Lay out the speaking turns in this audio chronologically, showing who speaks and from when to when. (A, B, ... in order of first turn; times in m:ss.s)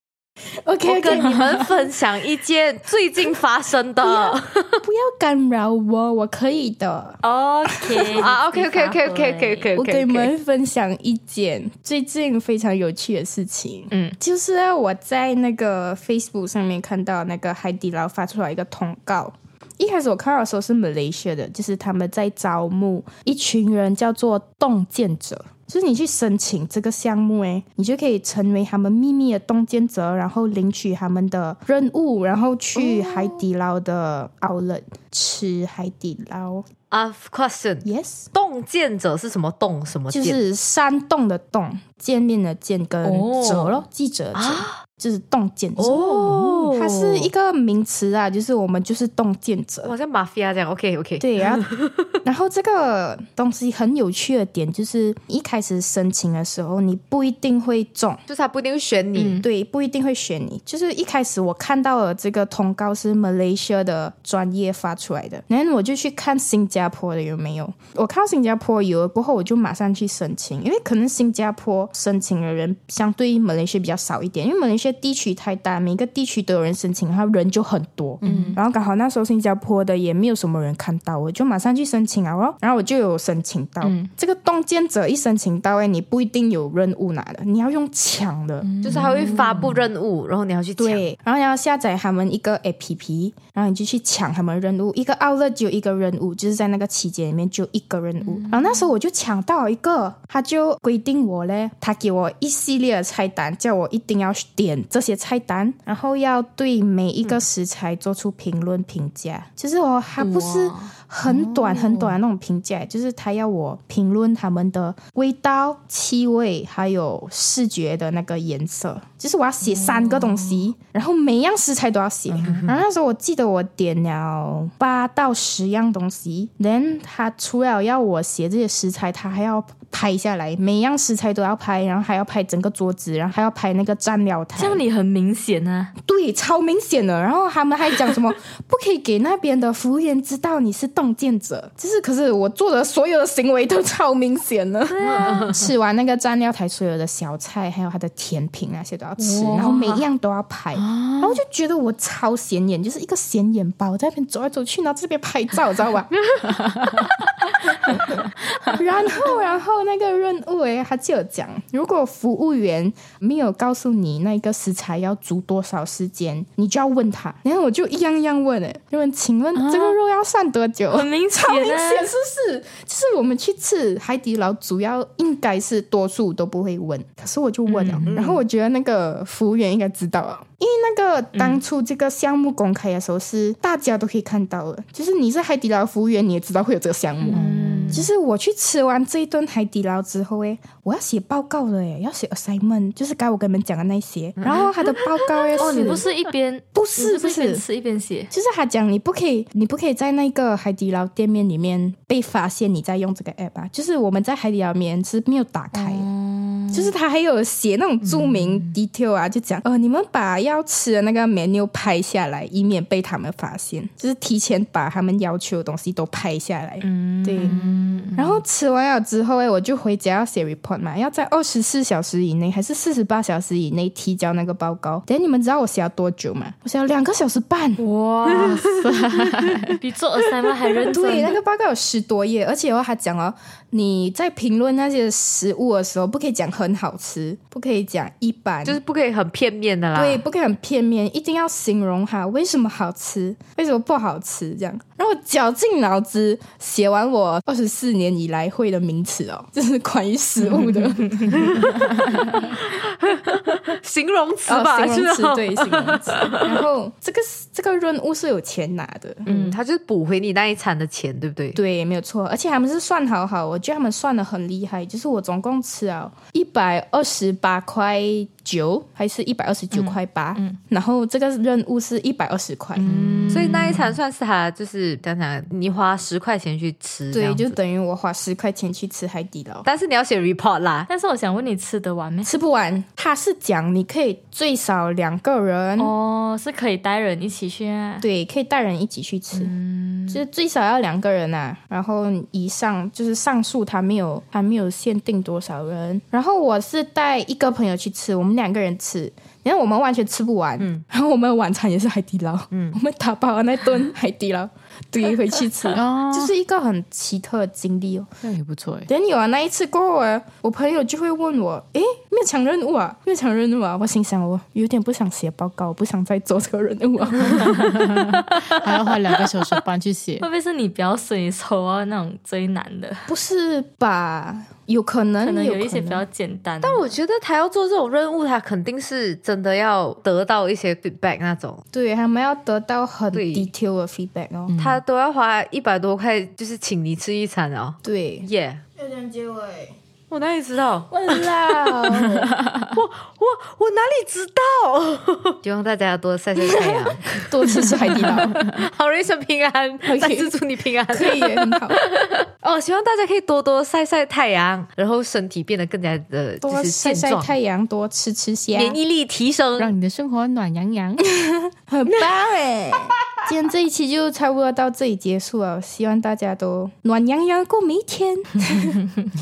0:00.6-0:01.7 A
0:00.8-0:04.8 B
0:04.0-0:07.2 A
0:07.2-0:09.7 C
0:07.7-0:08.2 A
0:08.1-0:10.3 B
0:09.8-0:36.6 A
0:13.9-0:14.2 C
0:32.8-0:33.4 C
0:36.9-0:40.4 B
0:37.8-0:38.3 A
0:40.1-0:49.9 A
0:43.0-0:43.8 C
0:44.3-0:44.8 B
0:45.8-0:47.3 B
0:45.9-0:46.7 C
0:49.8-0:52.0 B
0:51.2-0:51.7 A
0:52.2-0:58.2 A
0:58.3-0:59.4 B
0:59.2-0:59.4 C
0:59.4-1:28.7 A
1:18.2-1:18.6 C
1:18.2-1:18.5 D
1:23.8-1:24.1 C
1:28.6-1:29.7 C
1:28.8-1:31.0 B
1:30.8-2:14.8 A
1:38.4-1:38.7 C
1:50.2-1:50.9 C
1:51.2-1:52.2 D
1:59.9-2:00.4 C
2:02.3-2:02.8 B
2:14.6-2:15.9 C
2:16.0-2:36.2 A
2:24.9-2:25.5 C
2:25.1-2:25.6 B
2:29.2-2:30.1 C
2:30.7-2:31.4 D
2:36.6-2:37.0 D
2:37.8-3:07.4 A
2:49.5-2:50.0 D
2:50.9-2:52.1 C
2:57.7-2:58.1 C
2:58.1-2:58.4 B
3:01.3-3:01.6 C
3:07.2-3:08.1 C
3:07.3-3:08.0 D
3:07.9-3:16.0 A
3:14.4-3:15.8 B
3:15.6-3:18.3 C
3:16.7-3:17.6 A
3:18.3-3:26.1 A
3:25.7-3:26.9 C
3:26.7-3:37.6 A
3:36.8-3:38.3 C
3:37.4-3:38.1 D
3:38.2-3:47.8 A
3:47.8-3:48.8 C
3:48.3-3:49.8 D
3:48.4-3:48.9 B
3:49.8-3:51.4 C
3:50.7-3:58.8 A
3:58.6-4:00.2 B
3:59.9-4:11.6 A
4:11.3-4:11.8 B
4:12.4-4:16.6 B
4:14.5-4:19.5 A
4:19.2-4:21.6 B
4:21.6-4:32.9 A
4:32.8-4:33.6 C
4:32.8-4:33.9 D
4:33.3-4:37.6 B
4:37.1-4:39.6 A
4:39.6-4:40.9 B
4:40.9-4:42.3 C
4:42.2-4:45.9 A
4:45.8-4:48.0 C
4:48.0-4:49.6 A
4:49.3-4:50.2 C
4:50.1-5:08.1 A
5:02.5-5:02.8 B
5:05.7-5:06.3 D
5:08.2-5:08.9 D
5:08.9-5:17.8 A
5:17.2-5:20.2 D
5:20.2-5:23.1 C
5:23.1-5:26.0 A
5:25.2-5:26.9 C
5:26.6-5:31.6 B
5:31.7-5:34.6 A
5:33.1-5:33.5 B
5:34.5-5:34.8 D
5:34.6-5:38.6 B
5:37.8-5:39.8 A
5:40.1-5:57.3 B
5:40.9-5:42.3 A
5:42.3-5:42.7 D
5:46.4-5:48.4 A
5:48.1-5:48.5 D
5:49.8-5:50.3 A
5:50.9-5:51.8 A
5:56.4-5:58.8 A
5:58.5-5:59.7 B
5:59.6-6:01.0 D
6:01.1-6:08.8 A